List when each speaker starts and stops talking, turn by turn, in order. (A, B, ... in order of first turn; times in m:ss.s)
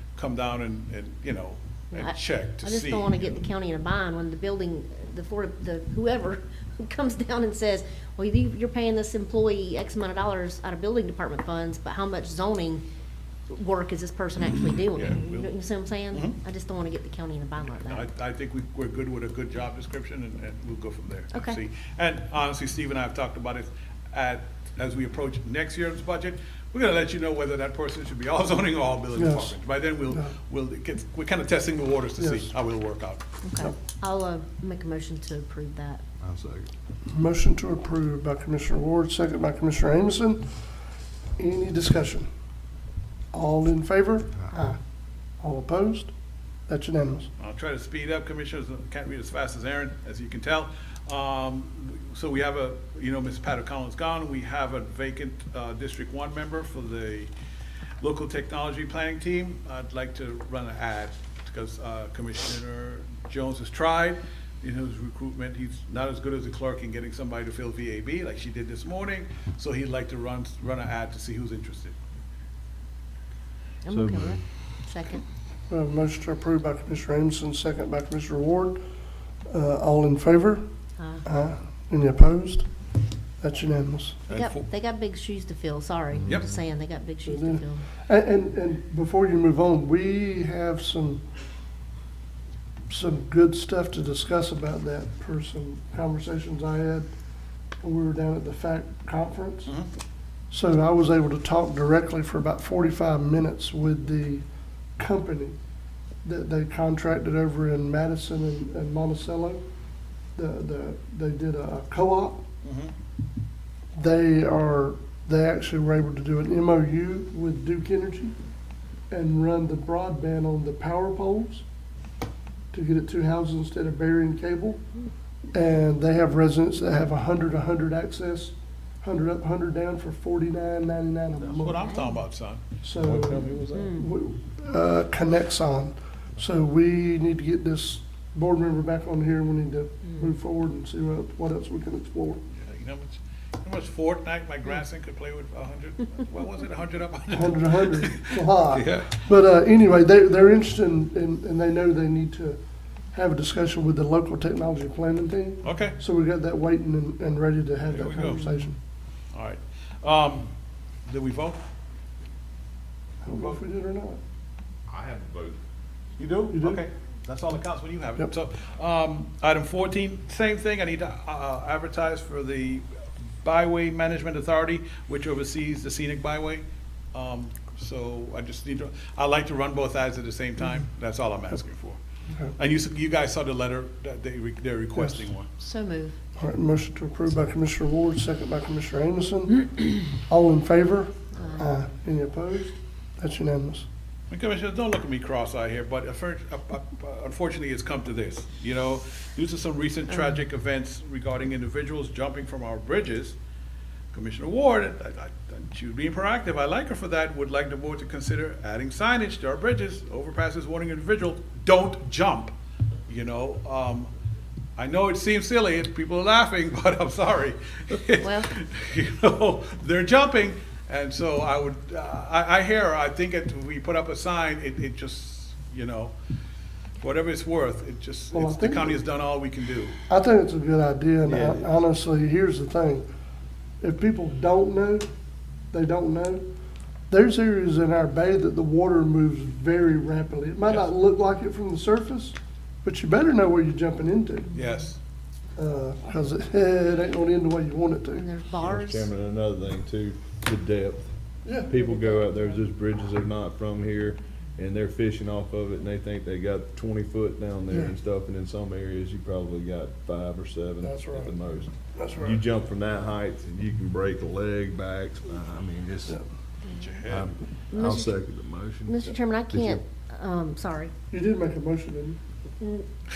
0:00.2-0:03.3 A
0:01.9-0:12.8 B
0:13.5-0:18.1 B
0:14.9-0:15.5 A
0:17.9-0:33.2 A
0:21.3-0:21.6 B
0:29.1-0:30.3 C
0:32.2-0:32.5 C
0:33.4-0:36.0 B
0:36.2-0:36.7 D
0:37.1-0:40.6 C
0:41.4-0:42.3 C
0:43.3-0:44.8 C
0:45.4-0:46.1 C
0:46.7-0:47.3 C
0:47.4-0:57.3 A
0:58.0-1:12.0 A
1:13.8-1:15.2 B
1:13.9-1:14.4 D
1:15.7-1:18.8 C
1:19.5-1:20.6 C
1:21.0-1:21.2 B
1:21.2-1:22.7 C
1:23.4-1:24.2 C
1:24.3-1:24.7 A
1:24.3-1:27.9 B
1:26.3-1:26.5 A
1:27.2-1:31.2 C
1:32.9-1:37.1 C
1:37.8-1:39.7 C
1:40.5-1:44.4 C
1:45.0-1:45.6 C
1:46.2-1:49.6 C
1:50.4-1:52.4 C
1:52.6-1:52.9 A
1:54.0-1:58.3 C
1:59.1-2:01.6 C
2:02.7-2:04.8 C
2:05.5-2:12.0 C
2:11.4-2:12.6 A
2:12.8-2:22.4 C
2:13.0-2:14.0 D
2:13.7-2:14.1 B
2:20.0-2:20.3 B
2:22.6-2:29.2 A
2:27.3-2:32.6 C
2:33.1-2:38.8 C
2:35.6-2:36.0 A
2:37.9-2:38.6 A
2:39.3-2:40.5 A
2:41.1-2:41.6 A
2:43.2-2:44.2 C
2:43.3-2:43.6 A
2:44.9-2:45.6 D
2:46.2-2:52.8 A
2:46.5-2:46.8 C
2:53.4-3:02.0 A
3:02.6-3:05.5 A
3:05.0-3:05.3 C
3:05.6-3:06.2 B
3:06.4-3:13.9 C
3:11.3-3:11.7 B
3:14.3-3:23.4 A
3:24.1-3:32.5 A
3:33.1-3:34.1 A
3:34.8-3:46.1 A
3:38.2-3:38.5 B
3:47.0-3:50.0 A
3:48.3-3:49.0 C
3:50.1-3:53.1 C
3:51.2-3:51.7 D
3:53.8-3:55.1 C
3:55.7-3:56.4 C
3:57.1-4:04.5 C
4:04.5-4:05.0 A
4:05.6-4:08.3 C
4:08.2-4:09.1 B
4:08.6-4:26.2 D
4:11.4-4:12.6 C
4:17.7-4:18.0 C
4:20.8-4:21.4 C
4:21.9-4:22.4 C
4:26.7-4:27.0 B
4:26.7-4:27.3 A
4:27.1-4:29.8 D
4:27.7-4:28.2 B
4:28.9-4:30.9 B
4:31.1-4:32.2 C
4:32.6-4:32.8 B